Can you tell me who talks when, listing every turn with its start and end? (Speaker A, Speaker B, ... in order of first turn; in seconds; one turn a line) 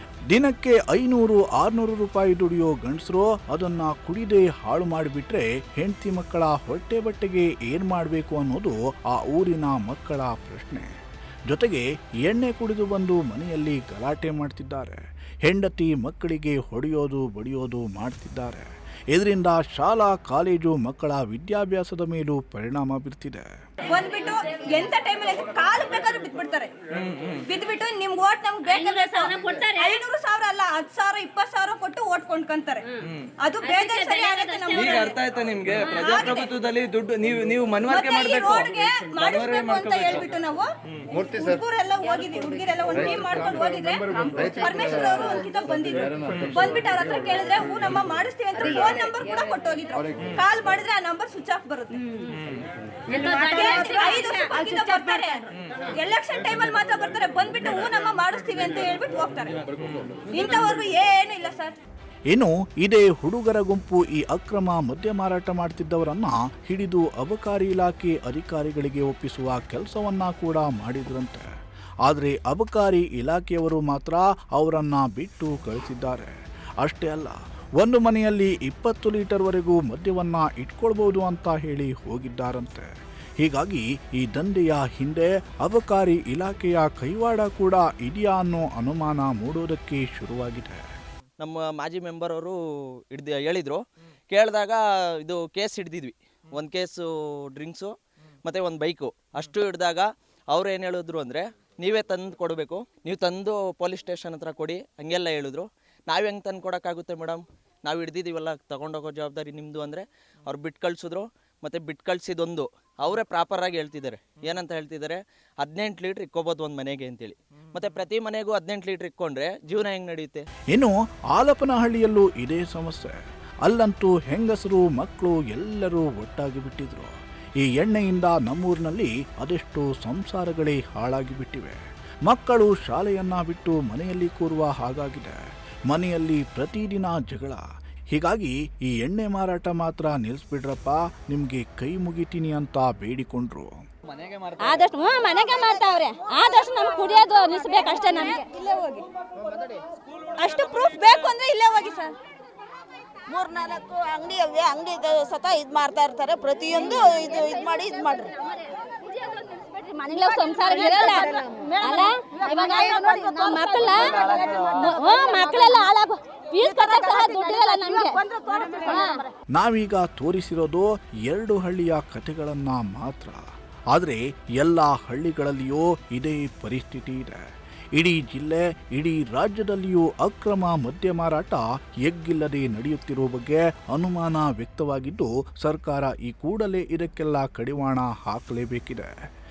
Speaker A: 0.3-10.9
Speaker A: 11.5-23.4
Speaker B: 23.9-26.7
Speaker C: 27.1-27.4
Speaker B: 27.4-32.9
Speaker D: 28.7-30.0
Speaker B: 33.4-35.2
Speaker D: 33.6-35.0
Speaker C: 34.7-40.3
Speaker B: 35.8-36.5
Speaker D: 35.8-36.4
Speaker B: 37.8-52.0
Speaker D: 53.1-55.2
Speaker B: 53.3-59.6
Speaker B: 60.3-61.8
Speaker A: 62.3-71.5
Speaker A: 72.0-82.9
Speaker A: 83.4-90.8
Speaker E: 91.4-97.9
Speaker E: 98.4-120.4
Speaker A: 120.7-127.1
Speaker A: 127.7-135.3
Speaker A: 135.9-143.7
Speaker D: 144.6-148.6
Speaker B: 150.4-152.1
Speaker F: 153.3-158.3
Speaker D: 159.0-169.2
Speaker A: 169.5-173.4
Speaker A: 173.9-177.4
Speaker A: 177.9-189.1